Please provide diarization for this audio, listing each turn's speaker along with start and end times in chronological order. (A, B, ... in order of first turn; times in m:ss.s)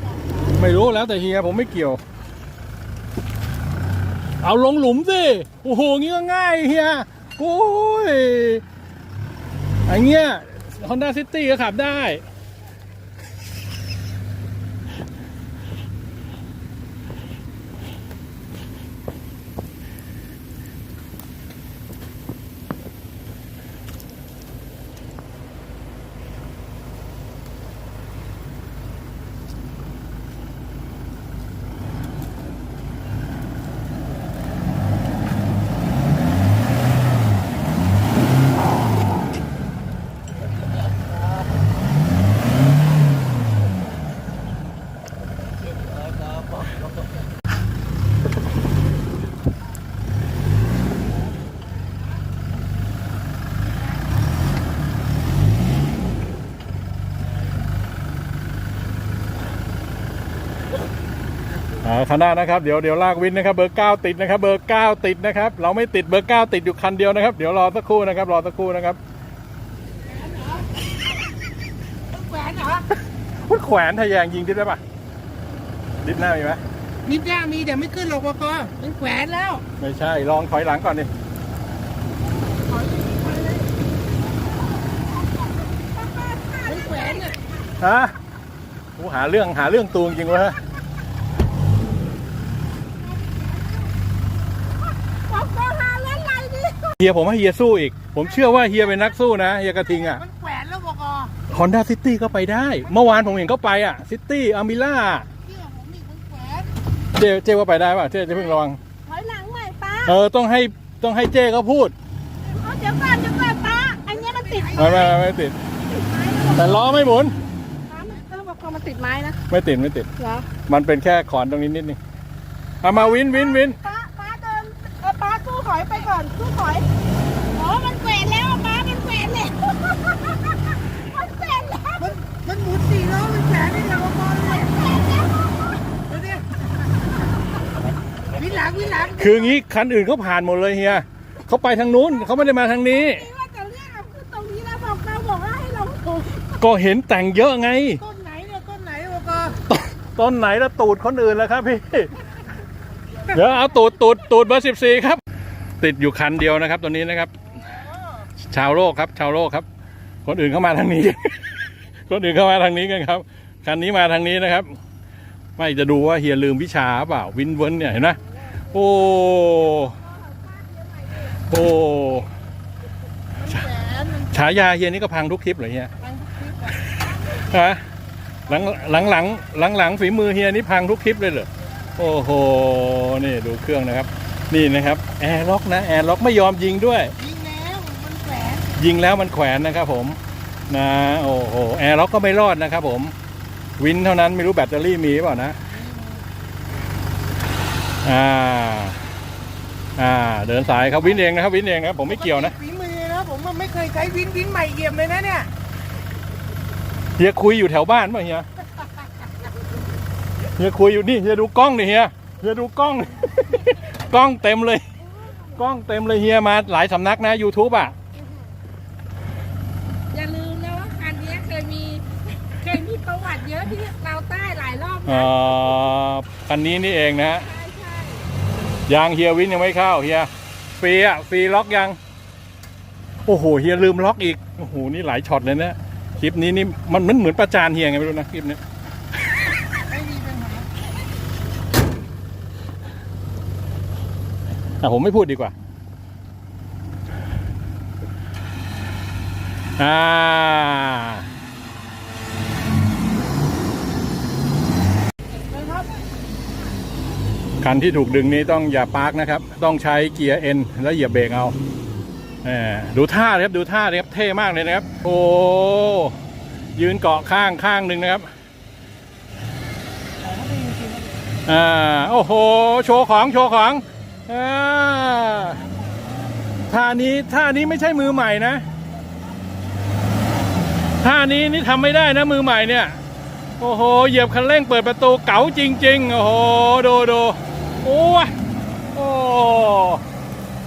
0:00.5-0:02.0 A
0:04.4-0:08.6 A
0:09.9-0:12.2 A
1:01.8-1:09.0 A
1:12.1-1:12.8 B
1:13.4-1:14.8 A
1:16.0-1:16.6 A
1:17.0-1:19.6 B
1:19.8-1:21.1 A
1:22.7-1:23.7 B
1:25.2-1:27.5 C
1:26.7-1:27.4 B
1:27.8-1:28.2 A
1:29.0-1:30.6 A
1:35.1-1:36.9 C
1:37.0-1:40.2 A
1:40.0-1:41.3 B
1:41.5-1:45.3 A
1:45.4-1:46.7 B
1:47.1-1:48.8 A
1:49.1-1:50.1 C
1:50.0-1:51.9 A
1:52.4-1:55.2 C
1:54.2-1:55.0 B
1:54.8-1:55.6 A
1:55.8-1:56.9 C
1:56.5-1:57.4 A
1:57.9-1:59.4 C
1:59.5-2:00.1 A
2:00.2-2:00.5 C
2:00.7-2:02.0 A
2:02.8-2:03.8 A
2:02.9-2:06.9 C
2:07.5-2:12.2 C
2:12.0-2:14.8 B
2:14.5-2:15.5 C
2:16.1-2:16.5 B
2:18.3-2:19.3 B
2:19.2-2:23.3 A
2:22.4-2:26.5 C
2:26.6-2:28.0 A
2:28.0-2:29.6 B
2:29.7-2:32.1 A
2:33.3-2:35.2 A
2:35.8-2:37.3 A
2:38.5-2:39.7 A
2:40.2-2:44.8 A
2:45.6-2:50.0 A
2:49.8-2:51.4 C
2:51.5-2:52.3 A
2:53.5-2:54.3 B
2:54.3-2:55.9 A
2:56.0-2:56.9 B
2:56.9-2:57.8 A
2:58.5-3:07.2 A
3:07.2-3:08.7 B
3:08.8-3:13.1 A
3:13.8-3:15.6 A
3:15.7-3:16.2 B
3:18.0-3:19.0 A
3:20.0-3:22.6 A
3:22.1-3:25.5 B
3:27.2-3:28.5 A
3:30.5-3:34.8 A
3:35.6-3:38.0 A
3:40.1-3:45.3 C
3:45.1-3:47.5 A
3:47.4-3:48.3 C
3:48.9-3:52.0 A
3:53.3-3:58.6 A
3:59.8-4:00.7 B
4:04.8-4:05.5 A
4:09.8-4:11.3 A
4:17.6-4:21.6 A
4:22.4-4:26.2 A
4:26.8-4:28.3 A
4:31.5-4:35.6 A
4:36.7-4:38.6 A
4:41.0-4:43.0 A
4:43.6-4:48.3 A
4:48.9-4:50.0 A